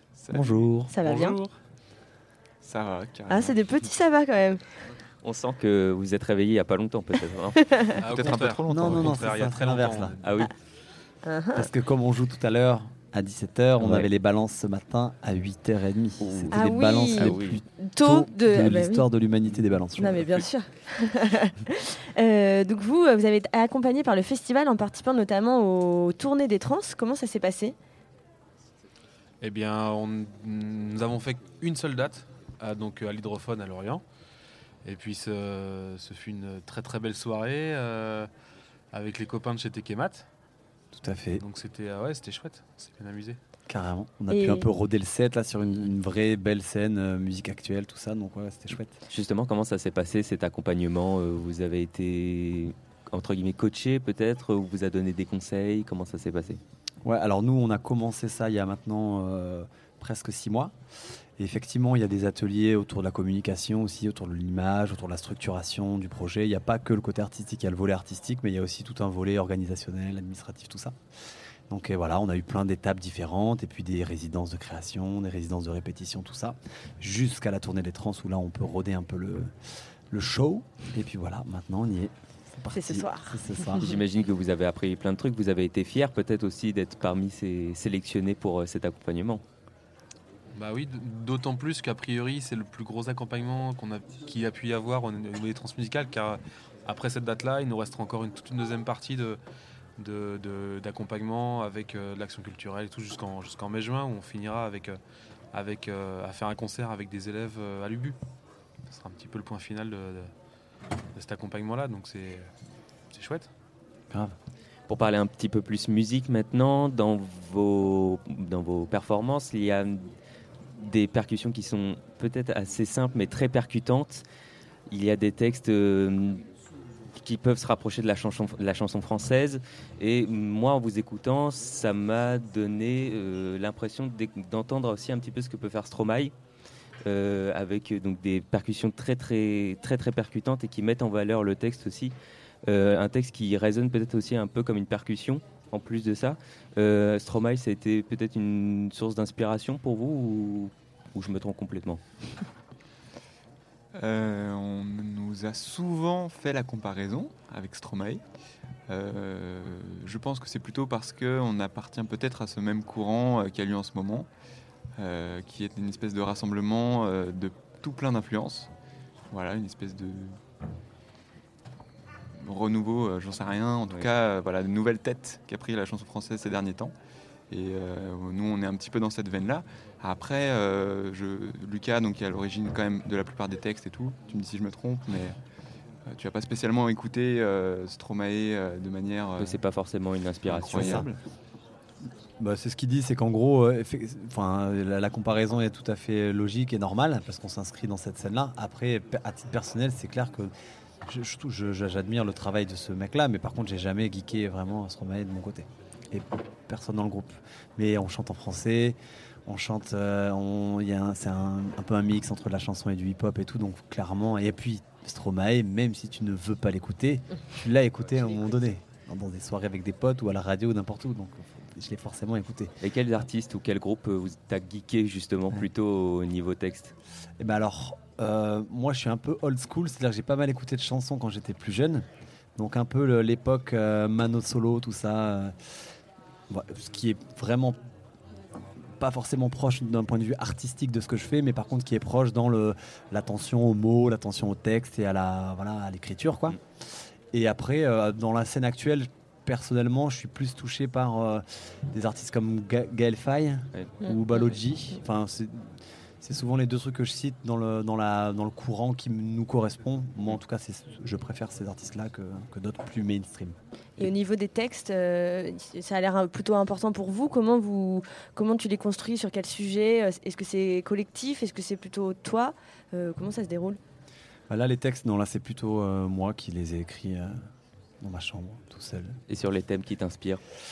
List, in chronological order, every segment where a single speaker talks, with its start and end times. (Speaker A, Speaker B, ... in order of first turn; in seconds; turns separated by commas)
Speaker A: 0.1-1.5, Speaker B: 0.3-1.0, Speaker C: 0.9-1.4, Speaker A: 2.6-3.6, Speaker C: 3.3-4.8, Speaker D: 5.2-7.7, Speaker C: 7.6-7.9, Speaker E: 7.8-10.2, Speaker A: 8.1-9.5, Speaker B: 8.7-10.2, Speaker D: 10.2-10.5, Speaker C: 11.2-11.7, Speaker B: 11.5-20.3, Speaker D: 13.8-14.1, Speaker D: 16.2-17.6, Speaker C: 16.5-19.1, Speaker C: 20.0-27.7, Speaker E: 29.4-34.0, Speaker E: 34.8-38.3, Speaker E: 38.9-40.3, Speaker B: 40.9-41.4, Speaker E: 41.4-43.4, Speaker B: 43.7-49.0, Speaker C: 44.3-44.7, Speaker D: 49.1-56.6, Speaker B: 57.0-60.7, Speaker B: 61.4-71.0, Speaker B: 71.7-79.5, Speaker B: 80.1-83.9, Speaker C: 82.7-83.8, Speaker D: 83.8-89.4, Speaker E: 90.5-99.4, Speaker E: 100.0-105.0, Speaker E: 105.5-108.2, Speaker E: 108.9-110.3, Speaker E: 111.2-112.5, Speaker E: 113.1-113.5, Speaker D: 114.9-120.1, Speaker D: 120.7-124.2, Speaker D: 124.9-126.5, Speaker D: 127.2-136.3, Speaker D: 137.0-152.0, Speaker A: 153.9-158.2, Speaker A: 158.9-164.3, Speaker A: 165.0-168.7, Speaker A: 169.3-170.4, Speaker A: 172.4-176.9, Speaker A: 177.5-185.4, Speaker A: 186.1-189.6, Speaker D: 189.4-191.2, Speaker A: 190.4-191.1, Speaker B: 190.7-191.1, Speaker B: 192.4-200.5, Speaker B: 201.1-222.8, Speaker D: 222.8-226.9, Speaker B: 227.4-235.5, Speaker B: 236.5-237.8, Speaker B: 238.8-246.6, Speaker B: 247.3-263.6, Speaker D: 253.7-254.6, Speaker C: 254.0-254.4, Speaker C: 264.0-273.8, Speaker B: 274.5-277.4, Speaker B: 278.0-279.2, Speaker D: 279.3-280.4